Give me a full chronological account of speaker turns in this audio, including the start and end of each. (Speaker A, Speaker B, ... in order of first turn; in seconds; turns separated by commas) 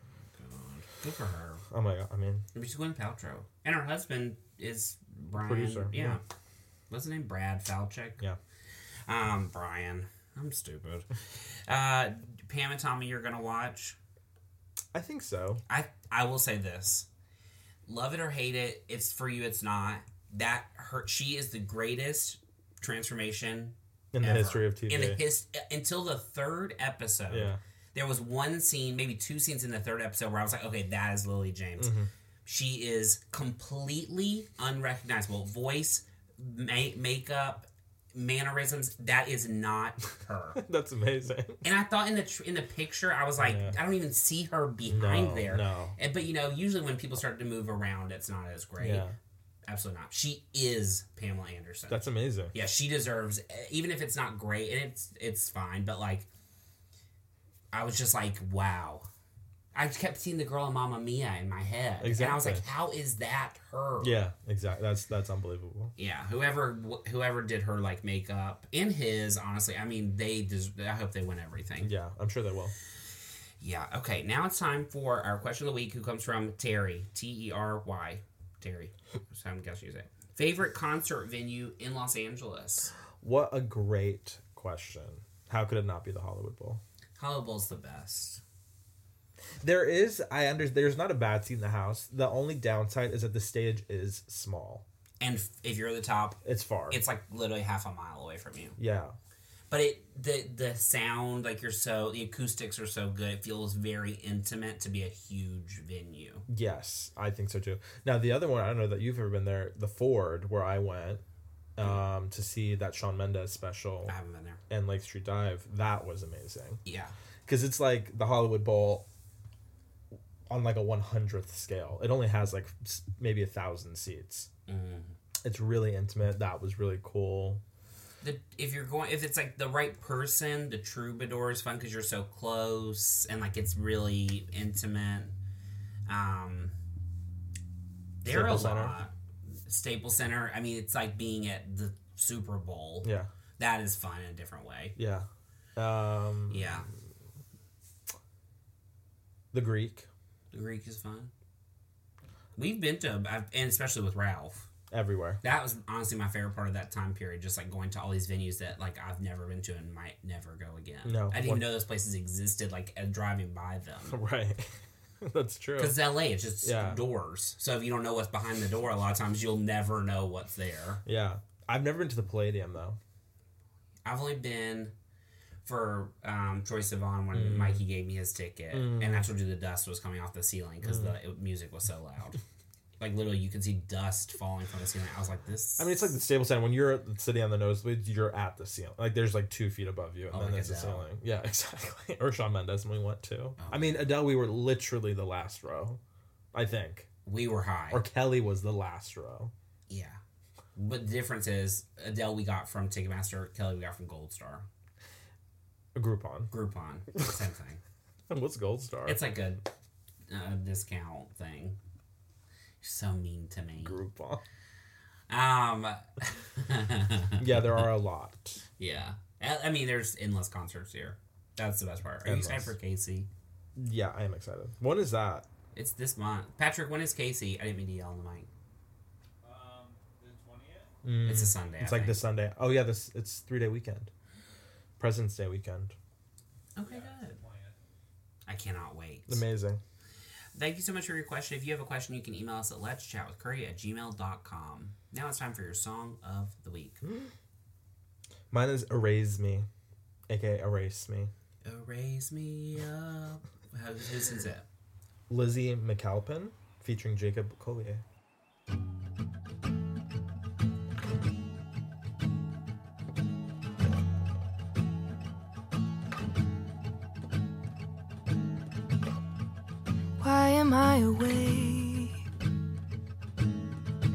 Speaker A: 0.3-1.6, Speaker B: 1.7-2.5, Speaker A: 2.5-6.2, Speaker B: 5.3-6.2, Speaker A: 6.9-8.2, Speaker A: 9.1-14.0, Speaker B: 14.9-15.6, Speaker A: 15.7-17.1, Speaker A: 17.9-31.9, Speaker B: 24.1-25.2, Speaker B: 27.3-27.6, Speaker B: 31.8-32.1, Speaker A: 32.4-40.6, Speaker B: 40.5-41.6, Speaker A: 41.6-49.1, Speaker B: 43.4-43.8, Speaker B: 44.9-46.0, Speaker B: 48.8-49.1, Speaker A: 49.7-56.3, Speaker B: 51.9-52.5, Speaker A: 57.7-59.1, Speaker A: 59.7-64.2, Speaker B: 62.0-62.6, Speaker B: 64.0-65.9, Speaker A: 66.0-71.9, Speaker B: 71.8-72.7, Speaker A: 73.6-82.9, Speaker B: 83.2-86.8, Speaker A: 87.2-88.4, Speaker B: 89.6-94.8, Speaker A: 95.2-98.8, Speaker B: 96.4-97.0, Speaker B: 98.8-99.2, Speaker A: 99.7-106.5, Speaker B: 106.5-111.2, Speaker B: 111.8-114.2, Speaker A: 114.1-114.6, Speaker B: 114.7-116.8, Speaker A: 116.8-117.1, Speaker B: 117.5-119.1, Speaker B: 120.5-124.5, Speaker A: 124.7-125.2, Speaker B: 125.4-127.6, Speaker A: 128.2-135.3, Speaker A: 136.1-136.8, Speaker A: 138.2-139.1, Speaker B: 138.2-139.0, Speaker A: 139.7-144.9, Speaker B: 143.0-143.3, Speaker B: 144.9-146.9, Speaker A: 146.5-146.9, Speaker B: 149.5-150.1, Speaker A: 150.5-151.3, Speaker A: 152.6-154.7, Speaker B: 154.9-155.4, Speaker A: 155.4-164.2, Speaker B: 161.0-161.7, Speaker B: 164.1-164.7, Speaker B: 165.2-166.0, Speaker A: 165.8-171.0, Speaker B: 166.6-167.0, Speaker B: 171.1-173.0, Speaker A: 174.0-174.9, Speaker A: 175.6-182.4, Speaker B: 177.3-177.8, Speaker B: 178.7-179.3, Speaker B: 180.8-181.2, Speaker A: 183.0-186.1, Speaker B: 185.8-196.0, Speaker A: 190.3-191.1, Speaker A: 193.6-194.0, Speaker B: 196.5-197.1, Speaker A: 197.2-198.0, Speaker B: 197.9-199.5, Speaker A: 199.9-200.2, Speaker A: 200.7-204.7, Speaker B: 205.9-206.5, Speaker A: 206.5-207.8, Speaker B: 208.3-209.2, Speaker A: 209.1-209.6, Speaker A: 210.3-211.8, Speaker A: 212.8-213.9, Speaker B: 213.8-214.4, Speaker A: 215.3-217.8, Speaker B: 217.4-218.6, Speaker A: 218.8-223.3, Speaker B: 222.2-222.7, Speaker B: 223.8-225.5, Speaker A: 225.7-228.5, Speaker C: 229.4-230.9, Speaker B: 231.0-234.1, Speaker A: 231.2-232.2, Speaker B: 235.0-235.9, Speaker A: 236.8-237.4, Speaker C: 236.8-237.8, Speaker A: 238.5-239.4, Speaker B: 239.3-239.8, Speaker A: 240.5-247.0, Speaker B: 247.0-247.3, Speaker B: 248.5-249.7, Speaker B: 250.3-251.3, Speaker A: 251.6-254.7, Speaker B: 255.3-258.0, Speaker D: 270.2-272.2